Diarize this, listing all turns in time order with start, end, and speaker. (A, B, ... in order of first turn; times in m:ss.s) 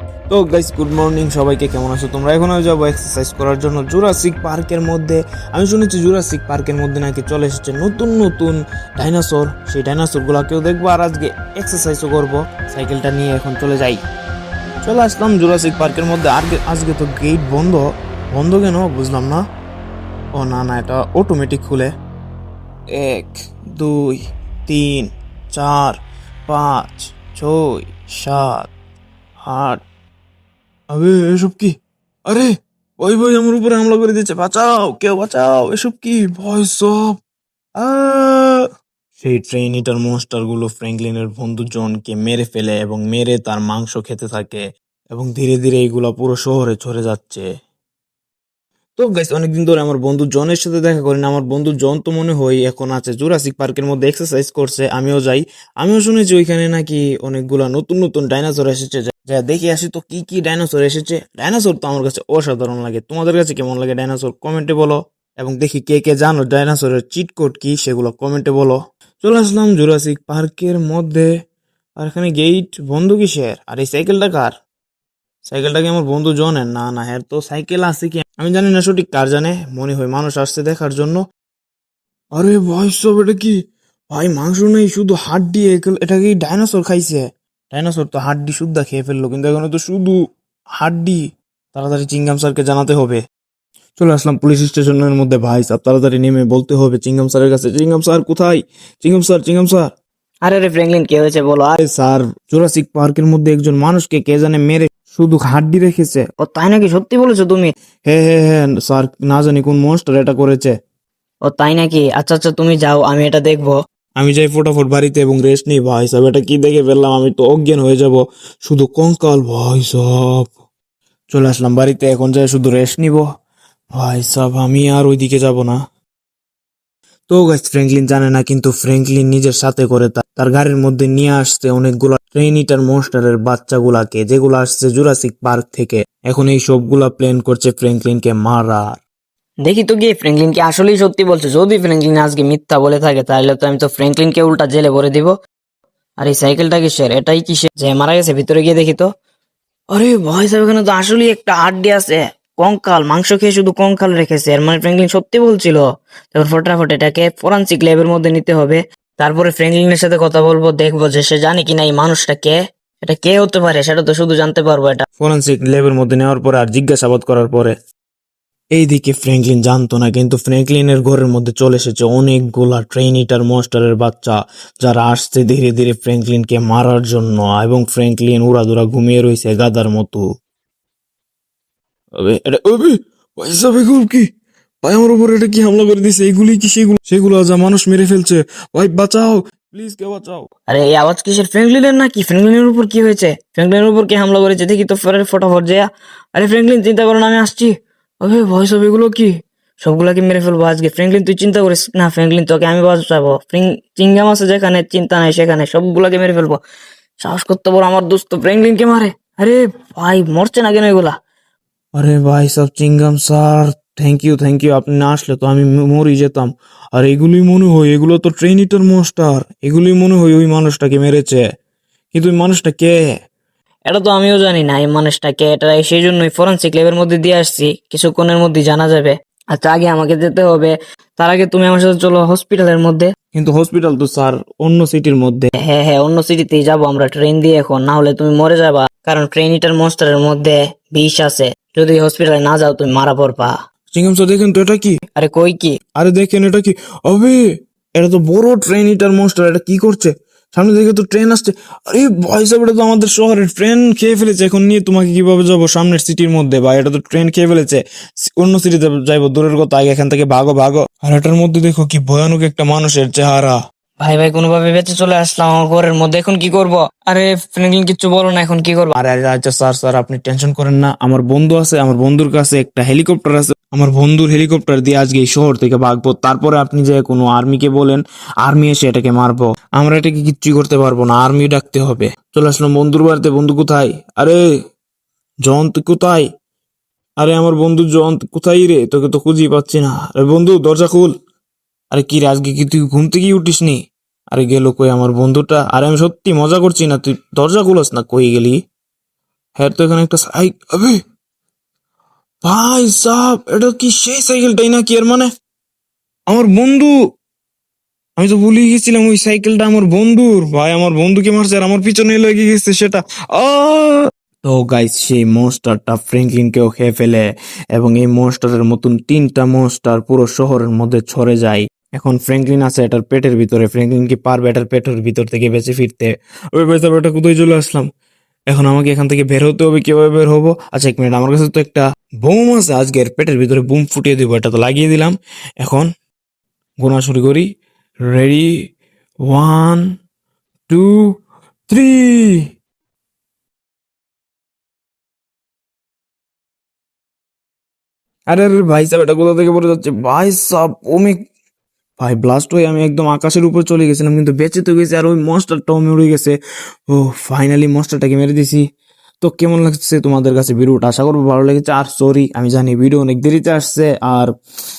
0:00.3-0:14.0 A
0:14.8-0:19.4 A
0:20.4-0:21.9 A
0:22.9-0:26.0 A
0:26.5-0:28.7 A
0:29.5-0:29.8 A
0:30.9-0:31.7 A
0:32.3-0:37.1 A
0:37.8-0:38.6 A
0:39.2-0:47.4 A
0:49.0-1:11.3 A
1:12.0-1:14.5 A
1:15.5-1:21.2 A
1:22.4-1:23.6 A
1:24.1-1:30.2 A
1:30.8-1:31.2 A
1:31.7-1:33.2 A
1:34.0-1:39.9 A
1:40.4-1:41.8 B
1:41.8-1:46.2 A
1:46.4-1:47.7 B
1:48.1-1:50.7 A
1:51.5-1:53.7 B
1:54.2-2:00.4 A
2:01.3-2:03.2 A
2:03.9-2:05.8 A
2:07.3-2:19.0 A
2:19.6-2:25.3 B
2:26.2-2:29.1 B
2:29.9-2:35.8 B
2:36.3-2:45.0 B
2:45.2-2:47.7 A
2:48.8-3:00.2 A
3:02.2-3:04.3 A
3:04.8-3:10.5 A
3:10.7-3:19.3 B
3:19.8-3:26.6 B
3:27.2-3:31.1 B
3:32.0-3:41.4 A
3:42.1-3:42.9 A
3:43.9-3:53.1 B
3:53.3-3:55.5 A
3:55.6-4:03.5 B
4:04.0-4:05.0 A
4:05.2-4:05.8 B
4:06.0-4:07.4 A
4:08.0-4:17.8 A
4:18.4-4:23.6 A
4:24.0-4:28.9 B
4:29.0-4:44.4 A
4:45.4-4:46.3 A
4:47.2-4:51.1 A
4:51.9-4:53.8 A
4:54.3-4:58.6 A
4:59.6-5:01.0 A
5:02.4-5:05.3 A
5:06.3-5:06.9 A
5:08.2-5:17.2 A
5:17.8-5:27.9 A
5:28.5-5:35.9 A
5:36.8-5:37.4 A
5:38.1-5:38.5 A
5:39.3-5:39.8 A
5:40.7-5:41.1 A
5:41.7-5:42.4 A
5:48.3-5:51.2 A
5:52.0-5:56.4 A
5:56.9-5:58.6 A
5:59.2-6:04.3 A